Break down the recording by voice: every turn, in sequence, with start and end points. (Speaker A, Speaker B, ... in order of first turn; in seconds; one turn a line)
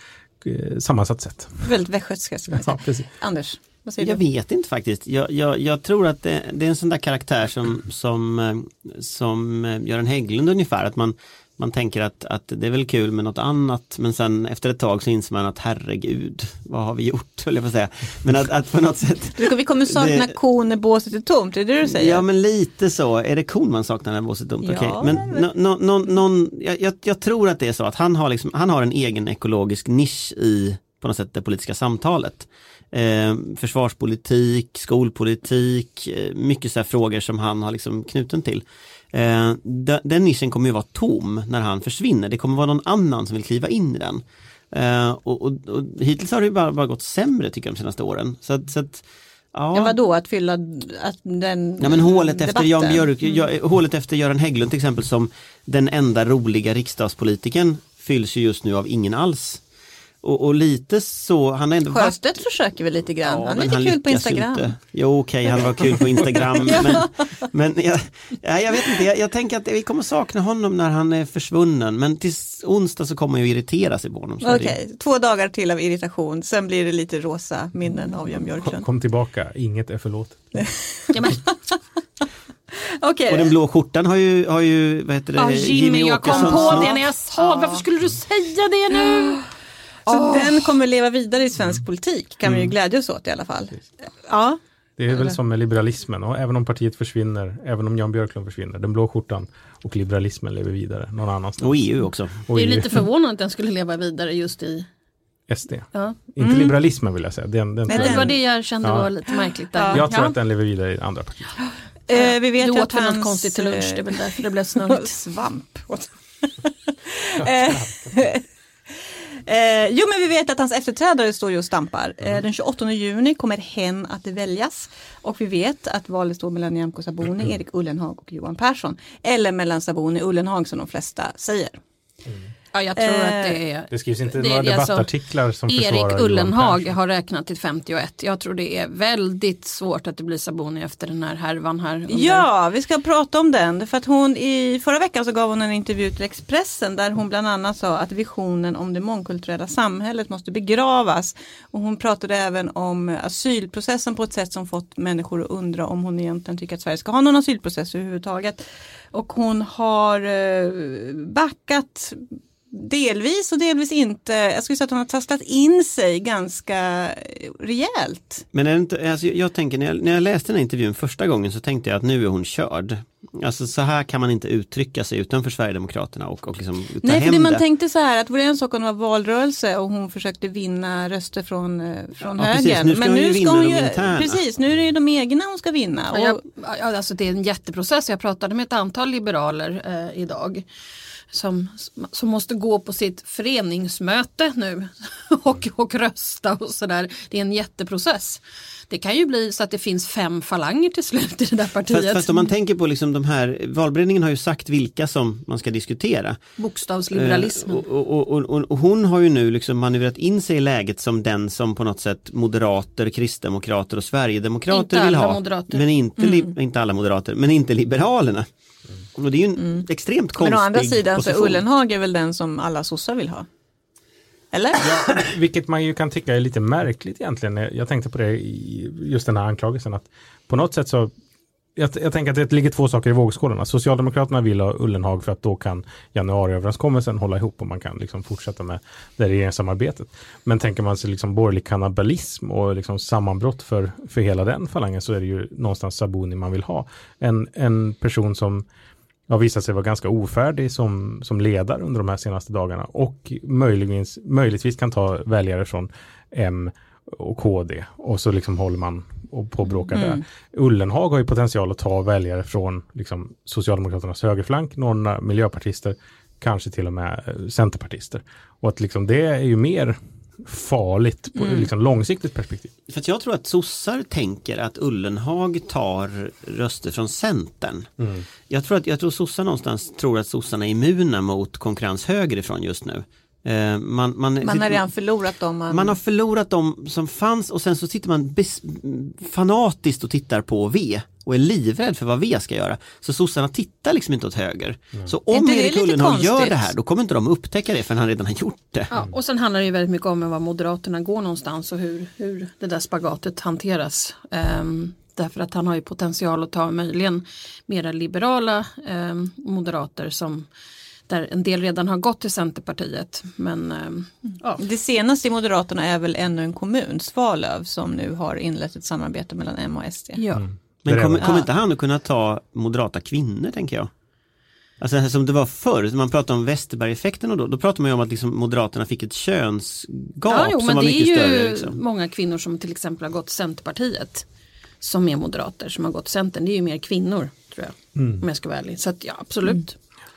Speaker A: 0.4-1.7
Speaker B: 1.6-4.2
Speaker A: 2.5-3.0
Speaker C: 4.0-20.3
Speaker B: 19.4-22.2
Speaker C: 21.8-50.0
Speaker B: 24.6-25.5
Speaker B: 49.7-53.4
Speaker C: 51.8-59.6
Speaker C: 60.2-62.1
Speaker B: 61.9-64.7
Speaker C: 63.2-74.7
Speaker B: 65.5-67.1
Speaker B: 74.4-78.9
Speaker A: 78.6-80.6
Speaker B: 80.6-81.7
Speaker D: 81.1-81.4
Speaker D: 83.0-83.3
Speaker C: 83.3-87.0
Speaker D: 85.4-89.4
Speaker B: 86.3-87.8
Speaker D: 90.1-90.6
Speaker B: 90.1-94.6
Speaker A: 92.5-92.7
Speaker A: 95.0-101.8
Speaker C: 101.6-102.4
Speaker A: 102.5-103.0
Speaker D: 102.5-104.9
Speaker A: 105.5-109.1
Speaker B: 106.4-106.7
Speaker D: 107.9-110.3
Speaker B: 107.9-108.3
Speaker B: 109.7-110.1
Speaker A: 109.9-111.5
Speaker B: 112.1-131.8
Speaker D: 112.1-115.2
Speaker A: 117.4-118.3
Speaker D: 132.7-135.1
Speaker B: 133.0-133.6
Speaker A: 133.9-136.9
Speaker D: 135.7-142.5
Speaker B: 142.1-158.6
Speaker B: 159.1-168.5
Speaker C: 168.5-177.6
Speaker B: 177.0-186.4
Speaker C: 182.3-184.4
Speaker D: 186.1-190.6
Speaker D: 191.3-202.5
Speaker C: 201.9-206.4
Speaker D: 206.6-207.8
Speaker C: 207.1-218.5
Speaker D: 214.7-215.8
Speaker B: 216.2-216.5
Speaker C: 219.2-221.6
Speaker B: 219.6-219.8
Speaker B: 220.4-223.5
Speaker B: 224.5-225.2
Speaker A: 224.8-231.1
Speaker A: 231.8-248.6
Speaker A: 249.3-272.7
Speaker B: 259.9-260.2
Speaker C: 272.9-277.9
Speaker A: 278.0-278.2
Speaker C: 278.5-284.8
Speaker B: 284.4-286.0
Speaker C: 285.7-298.9
Speaker B: 295.3-296.7
Speaker D: 298.9-310.5
Speaker D: 311.1-314.6
Speaker B: 314.6-320.2
Speaker D: 320.2-320.4
Speaker A: 320.3-321.3
Speaker C: 320.8-323.9
Speaker B: 321.2-321.5
Speaker C: 324.8-331.8
Speaker D: 330.3-334.2
Speaker D: 334.8-339.7
Speaker A: 337.9-338.2